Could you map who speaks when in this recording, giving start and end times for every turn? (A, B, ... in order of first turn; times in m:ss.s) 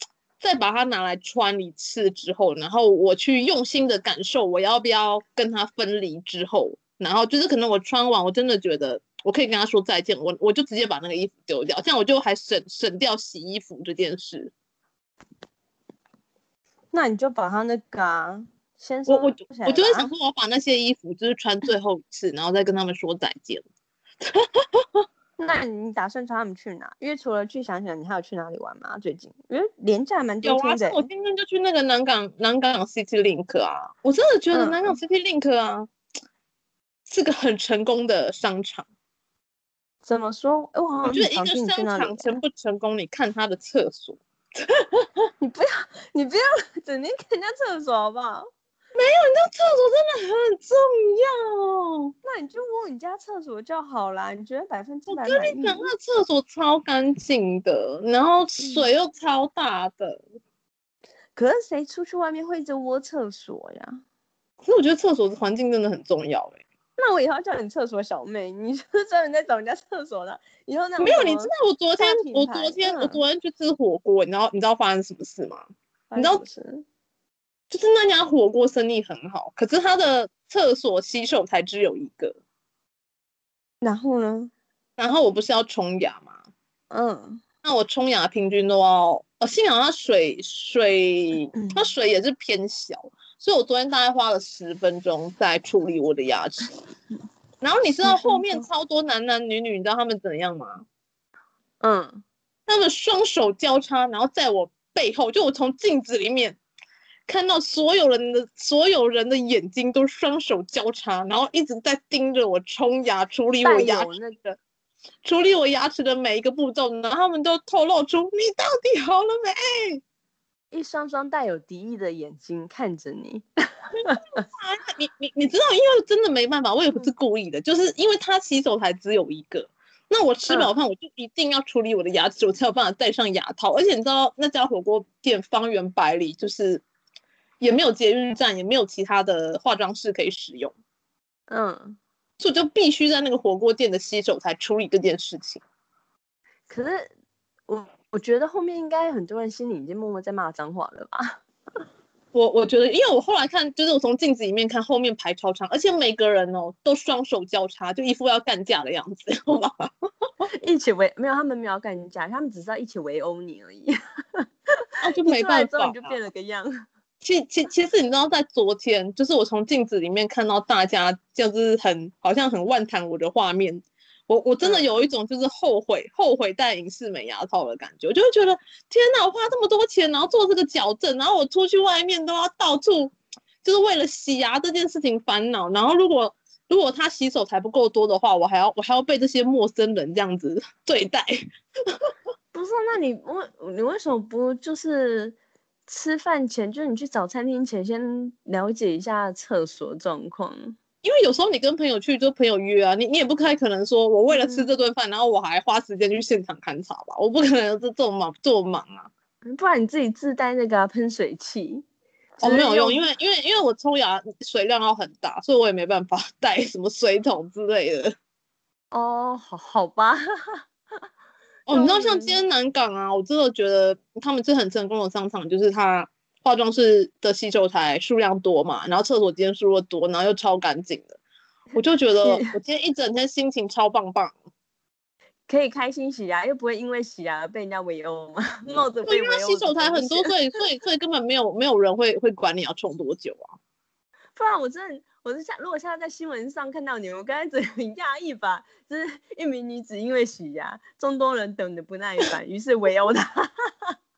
0:00.4-0:14.5 A
0:16.9-0:20.1 B
0:19.1-0:23.6 A
0:24.2-0:25.0 A
0:25.4-0:31.1 B
0:30.4-0:35.9 A
0:34.5-0:35.0 B
0:37.1-0:38.9 A
0:40.0-0:42.4 B
0:41.1-0:45.1 A
0:45.4-0:48.5 B
0:49.0-0:52.1 A
0:52.2-0:55.9 B
0:55.1-1:00.2 A
0:58.6-0:58.9 B
1:01.4-1:04.0 B
1:04.6-1:06.6 A
1:07.0-1:13.2 B
1:11.0-1:16.4 A
1:16.1-1:16.9 B
1:17.7-1:22.4 A
1:23.8-1:24.5 B
1:25.0-1:26.4 A
1:26.9-1:27.4 B
1:27.6-1:36.7 A
1:37.6-1:40.8 A
1:38.0-1:38.6 B
1:41.8-1:42.2 B
1:42.7-1:46.6 A
1:47.3-1:54.6 A
1:53.6-1:54.4 B
1:55.2-2:00.0 A
2:00.7-2:04.4 B
2:04.0-2:16.8 A
2:17.6-2:20.8 A
2:21.5-2:22.0 B
2:22.4-2:25.6 A
2:26.7-2:27.1 B
2:27.7-2:31.4 B
2:32.3-2:39.9 A
2:40.6-2:44.5 B
2:45.0-2:46.2 A
2:45.2-2:46.7 B
2:47.2-3:11.4 A
3:12.5-3:20.8 B
3:21.0-3:29.1 A
3:24.3-3:24.7 B
3:29.4-3:31.8 B
3:32.4-3:33.0 B
3:32.4-3:38.2 A
3:38.9-3:40.6 B
3:41.7-3:51.2 A
3:41.7-3:42.4 B
3:51.8-3:54.4 A
3:52.2-3:52.6 B
3:55.5-4:00.3 B
3:59.1-4:03.6 A
4:04.4-4:14.0 B